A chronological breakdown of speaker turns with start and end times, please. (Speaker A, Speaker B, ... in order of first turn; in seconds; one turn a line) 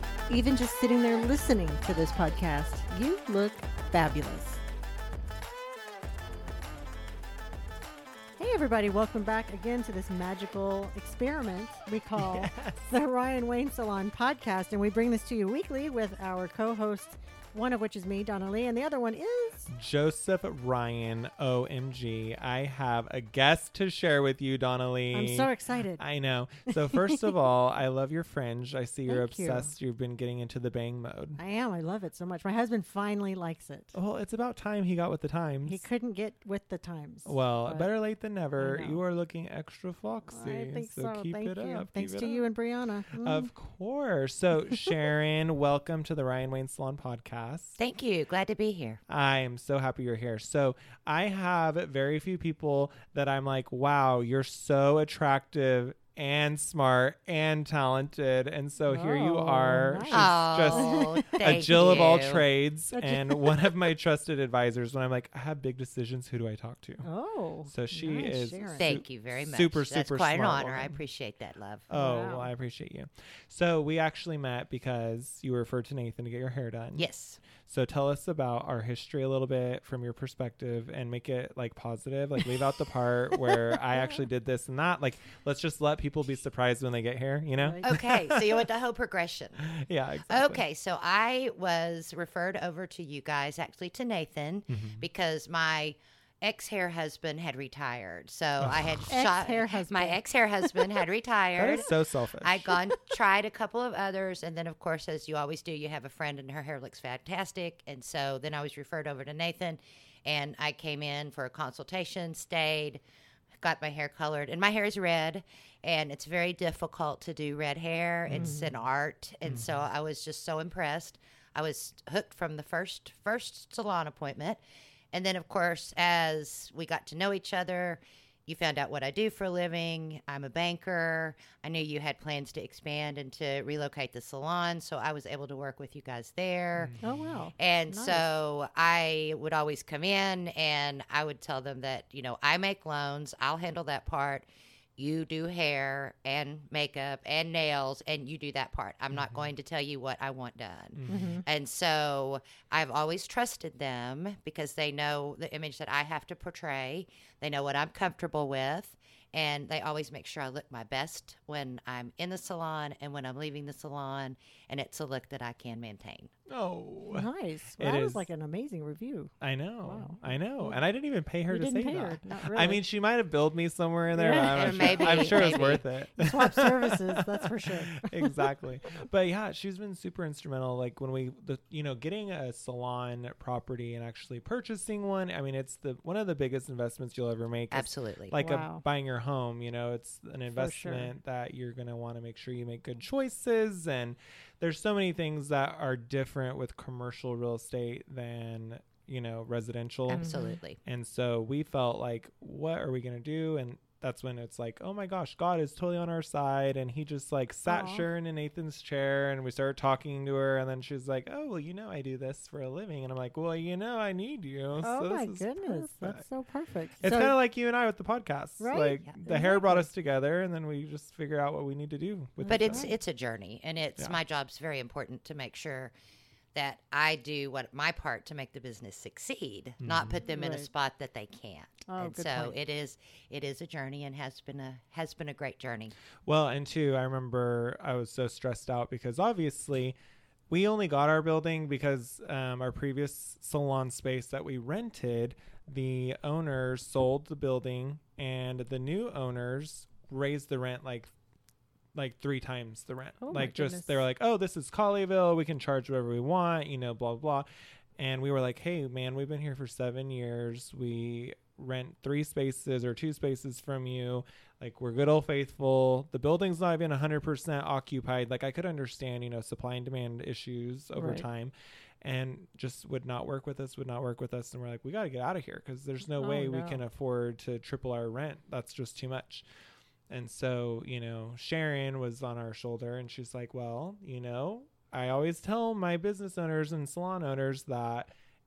Speaker A: 0.3-4.6
Speaker A: 8.4-19.7
Speaker B: 12.2-12.9
Speaker B: 19.7-31.4
Speaker A: 25.1-26.0
Speaker A: 26.7-27.3
Speaker A: 29.1-29.7
Speaker A: 31.4-34.0
Speaker B: 33.9-35.9
Speaker A: 35.6-37.9
Speaker B: 37.2-42.5
Speaker A: 38.6-39.0
Speaker A: 40.3-43.5
Speaker B: 43.2-47.8
Speaker C: 47.8-49.0
Speaker B: 49.1-67.1
Speaker A: 58.9-62.0
Speaker C: 60.1-62.4
Speaker A: 62.9-63.8
Speaker A: 67.0-69.0
Speaker B: 67.7-71.0
Speaker C: 68.8-71.8
Speaker B: 71.9-88.6
Speaker A: 71.9-72.5
Speaker C: 77.0-77.4
Speaker A: 87.6-87.9
Speaker C: 87.8-89.6
Speaker B: 89.6-90.6
Speaker C: 90.3-101.9
Speaker B: 94.7-95.0
Speaker B: 98.6-99.1
Speaker A: 99.1-100.9
Speaker B: 101.5-102.8
Speaker C: 102.4-113.0
Speaker C: 113.6-124.6
Speaker B: 118.3-118.6
Speaker A: 118.3-118.7
Speaker B: 119.4-119.8
Speaker C: 125.1-136.9
Speaker B: 136.8-137.4
Speaker A: 137.0-138.3
Speaker C: 137.6-144.4
Speaker C: 145.0-166.3
Speaker B: 149.1-149.5
Speaker B: 150.9-151.3
Speaker A: 151.1-151.4
Speaker B: 166.5-167.3
Speaker A: 167.1-169.3
Speaker B: 167.8-168.3
Speaker B: 169.4-200.3
Speaker A: 169.8-170.8
Speaker A: 171.5-172.8
Speaker A: 174.1-178.3
Speaker C: 174.3-175.8
Speaker C: 187.7-188.3
Speaker A: 188.4-188.8
Speaker A: 190.5-191.1
Speaker C: 200.1-200.8
Speaker A: 200.1-200.6
Speaker B: 200.8-216.2
Speaker A: 207.7-208.1
Speaker A: 214.8-217.3
Speaker B: 217.0-222.9
Speaker A: 218.6-219.9
Speaker A: 222.4-222.9
Speaker C: 222.5-225.9
Speaker C: 226.5-235.9
Speaker B: 229.8-230.2
Speaker A: 230.3-230.7
Speaker A: 231.9-232.6
Speaker B: 236.2-239.9
Speaker B: 240.5-251.1
Speaker B: 251.9-279.4
Speaker A: 253.2-254.1
Speaker A: 270.9-271.2
Speaker A: 276.1-276.8
Speaker B: 280.1-288.1